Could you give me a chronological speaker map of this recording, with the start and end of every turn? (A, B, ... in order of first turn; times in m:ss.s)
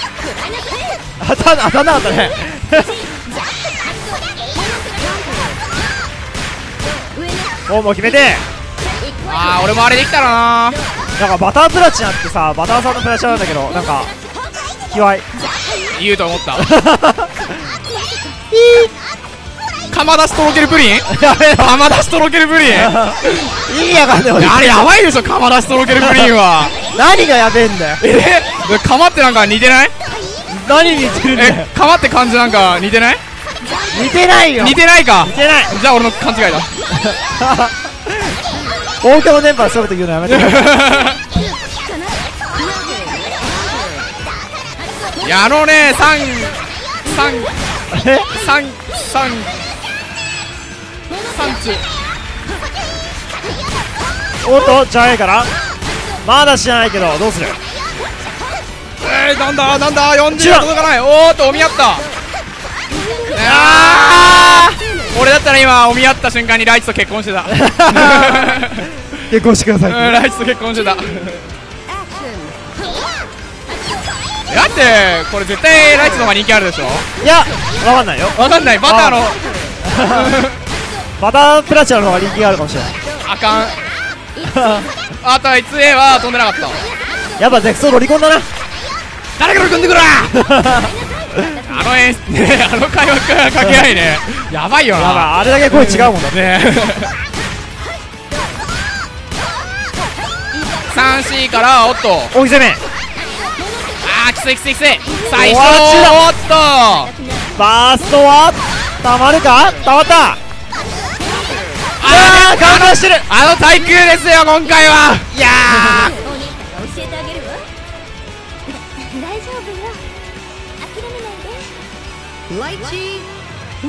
0:01.2-0:03.0 A
0:07.7-0:08.4 A
0:09.2-0:10.8 B
0:11.2-0:14.1 A
0:14.9-0:15.2 A
0:15.9-0:16.7 B
0:16.6-0:17.5 A
0:18.5-0:18.9 A
0:19.9-0:23.0 B
0:21.1-0:21.7 A
0:22.6-0:24.9 A
0:24.4-0:26.7 B
0:26.0-0:26.3 A
0:26.9-0:28.0 A
0:28.0-0:29.9 B
0:30.5-0:31.7 A
0:31.3-0:33.2 B
0:33.9-0:35.7 A
0:34.6-0:36.7 B
0:37.0-0:37.7 A
0:39.0-0:40.7 A
0:40.3-0:41.2 B
0:42.6-0:43.2 C
0:45.2-0:47.5 B
0:47.9-0:48.3 A
0:48.3-0:49.5 B
0:51.3-0:51.8 B
0:54.4-0:55.5 A
0:56.2-0:57.6 A
0:59.0-1:02.1 B
1:00.3-1:00.7 A
1:03.2-1:08.9 B
1:03.4-1:04.2 A
1:07.5-1:08.5 A
1:09.3-1:10.1 A
1:09.9-1:11.4 B
1:14.5-1:17.0 B
1:17.2-1:19.3 A
1:18.4-1:19.4 B
1:19.8-1:20.4 A
1:20.0-1:20.6 B
1:21.2-1:22.9 A
1:23.2-1:23.8 B
1:24.4-1:24.9 A
1:25.2-1:26.9 B
1:27.4-1:28.4 A
1:29.4-1:30.3 B
1:30.2-1:31.4 A
1:31.5-1:37.2 B
1:34.9-1:36.5 A
1:40.8-1:42.3 B
1:42.3-1:42.8 A
1:44.0-1:47.1 B
1:45.3-1:46.2 A
1:47.6-1:50.4 A
1:52.0-1:56.1 B
1:52.0-1:53.2 A
1:55.3-1:56.2 A
1:56.4-1:57.6 C
1:59.1-2:00.0 C
2:00.9-2:01.6 C
2:02.8-2:03.2 C